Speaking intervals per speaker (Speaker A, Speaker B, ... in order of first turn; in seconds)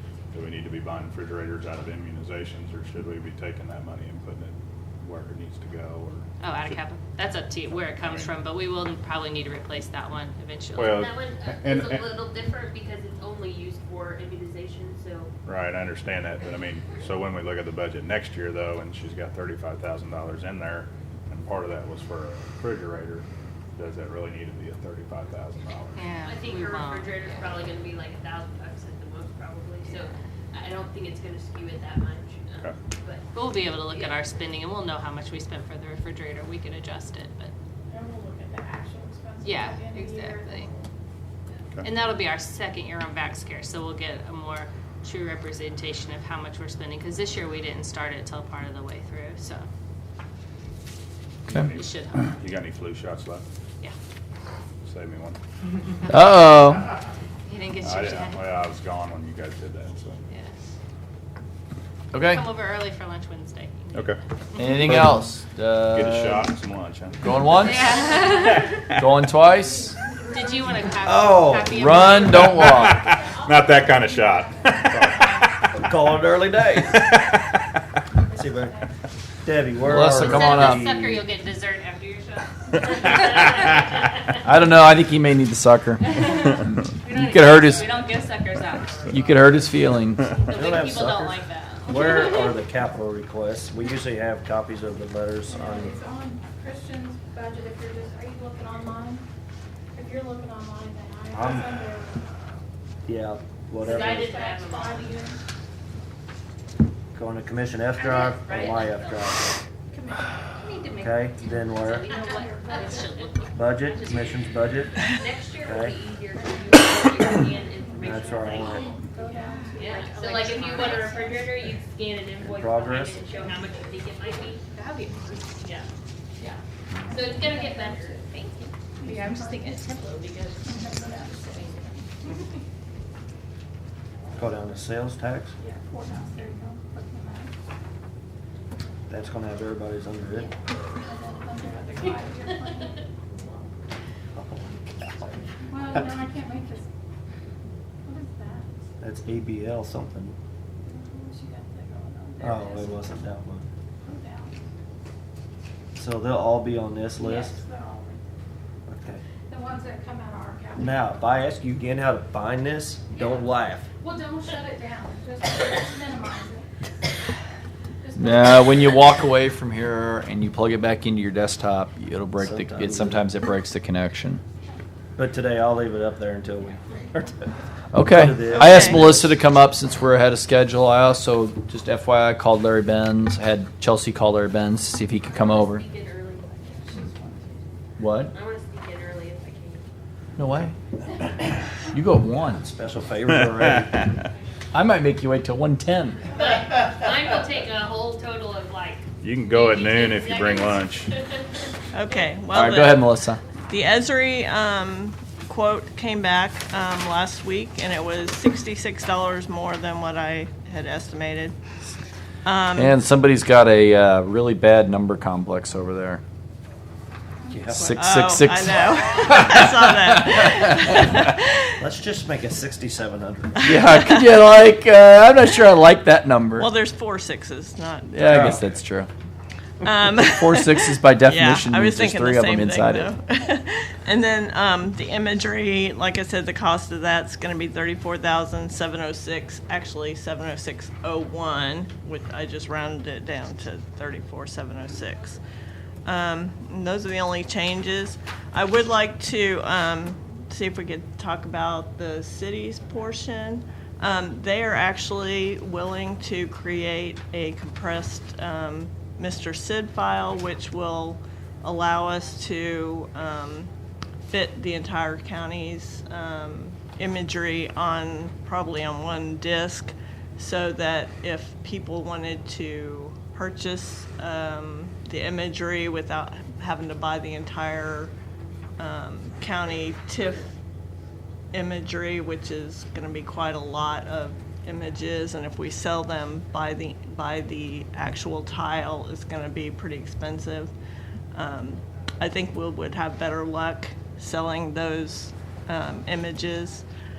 Speaker A: 0.3-6.8, 7.8-8.3, 10.8-12.1, 15.4-23.2, 23.8-26.0, 51.5-53.5, 54.9-55.4, 57.8-60.2, 63.9-64.2, 64.7-65.1, 65.9-68.0, 72.2-75.8, 77.0-77.6, 199.2-201.1
Speaker B: 6.4-11.0, 26.0-27.6, 33.3-37.5, 39.4-40.7, 41.8-49.7, 51.7-52.3, 57.5-58.5, 60.3-60.5, 62.2-65.0, 67.5-68.9, 70.3-72.9, 79.9-83.7, 86.1-89.1, 90.2-92.6, 112.7-113.8, 119.8-121.0, 125.1-125.4, 129.0-130.2
Speaker C: 10.9-15.3, 26.2-33.3, 33.9-34.2, 83.1-83.4, 87.1-89.8, 103.8-105.2, 108.0-109.3, 111.8-119.0, 119.8-124.6, 125.6-125.9, 127.1-128.4, 129.6-131.6, 185.3-187.6, 188.2-189.8, 196.3-201.1
Speaker D: 37.9-40.9, 67.8-71.1, 72.4-75.7, 78.1-78.9, 95.5-99.3, 99.9-102.4, 103.8-105.4, 109.9-111.2, 112.0-113.2, 116.3-121.5, 127.0-128.4, 129.0-129.8, 130.7-132.5, 135.6-137.5, 141.0-143.1, 145.7-146.9, 148.1-148.7, 150.8-153.1, 154.0-154.6, 157.2-158.2, 159.5-161.0, 164.0-166.7, 168.0-169.0
Speaker E: 56.1-56.9, 62.1-62.4, 64.6-66.5, 67.2-67.9, 68.9-70.0, 71.7-73.0, 79.8-80.9, 84.4-86.2, 87.1-87.9, 89.1-90.4, 168.2-174.4, 177.9-185.8, 188.0-188.3, 190.4-190.8, 191.9-192.7, 194.7-196.3, 202.5-203.4, 212.8-216.2, 217.7-219.4, 223.6-226.7, 228.1-229.1, 230.3-233.1
Speaker F: 71.0-72.1, 75.7-77.0, 78.3-78.8, 79.4-81.2, 90.5-96.0, 101.3-101.8, 103.1-104.4, 107.1-109.5, 111.0-112.1, 113.5-115.0, 115.6-116.0, 118.0-119.0, 122.4-123.4, 134.3-135.6, 139.1-140.5, 144.3-146.0, 149.0-150.4, 152.4-153.7, 155.9-157.6, 158.9-159.2, 160.8-163.9, 172.4-173.3, 175.2-177.5, 178.0-179.4, 192.5-194.1, 217.5-218.0, 221.8-223.8, 228.3-228.6
Speaker G: 178.5-179.0, 201.9-211.6, 212.4-213.0, 217.8-221.8, 226.6-228.3, 229.8-245.4, 246.1-263.7, 264.3-278.1, 278.8-280.6, 281.5-290.7, 291.3-296.9